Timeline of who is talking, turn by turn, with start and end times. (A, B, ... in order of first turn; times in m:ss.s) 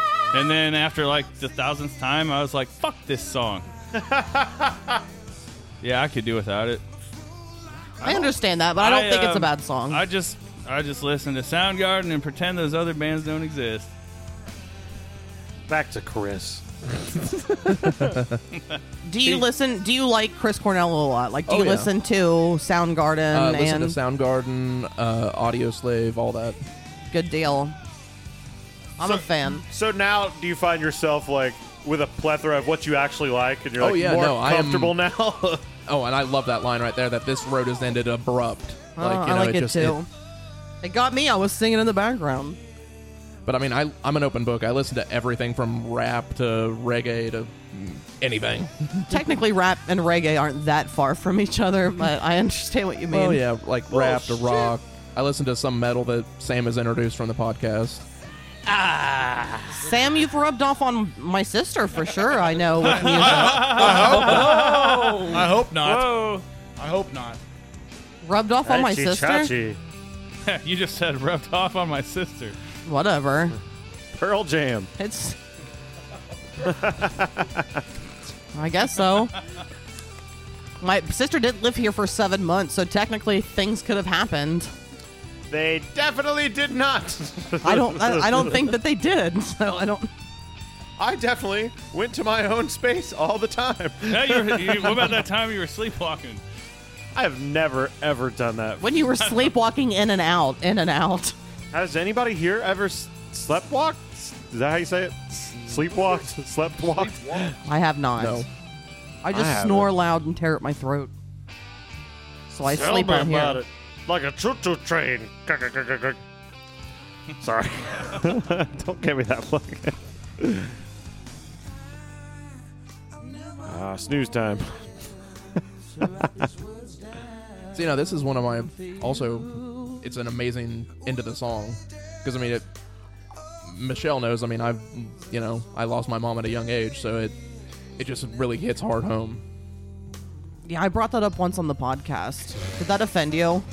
0:00.3-0:03.7 A
0:04.0-0:04.8 B
0:05.8-0:06.8 A
0:08.0-0:10.0 C
0:08.0-0:13.9 A
0:15.7-0:18.2 B
0:17.9-0:18.2 D
0:19.0-0:24.0 C
0:21.5-0:21.9 D
0:23.3-0:26.6 D
0:27.1-0:27.8 C
0:29.0-0:29.6 C
0:29.7-0:35.7 B
0:33.8-0:35.0 D
0:35.9-0:40.0 D
0:39.0-0:40.1 C
0:40.8-0:42.6 C
0:43.4-0:49.2 D
0:49.1-0:54.6 C
0:53.1-0:58.0 D
0:58.7-0:59.8 B
0:59.8-1:04.0 C
1:02.8-1:07.4 E
1:02.9-1:06.4 A
1:04.1-1:05.2 B
1:08.2-1:09.5 C
1:08.6-1:09.8 B
1:10.4-1:12.6 A
1:12.9-1:13.6 C
1:14.2-1:14.9 B
1:15.0-1:15.4 C
1:16.6-1:17.8 B
1:18.5-1:19.4 C
1:20.8-1:24.7 C
1:25.5-1:28.6 B
1:27.6-1:30.1 C
1:31.0-1:35.2 B
1:34.1-1:36.4 A
1:37.2-1:38.9 B
1:38.8-1:41.4 C
1:41.7-1:47.5 B
1:46.8-1:47.6 E
1:47.6-1:48.5 C
1:48.2-1:48.5 D
1:49.2-1:51.1 C
1:49.3-1:49.9 B
1:52.5-1:53.6 C
1:52.6-1:56.2 B
1:57.4-2:00.7 B
2:03.6-2:04.9 B
2:06.0-2:06.4 B
2:07.7-2:12.6 D
2:13.6-2:17.4 D
2:18.0-2:19.4 D
2:20.7-2:23.6 C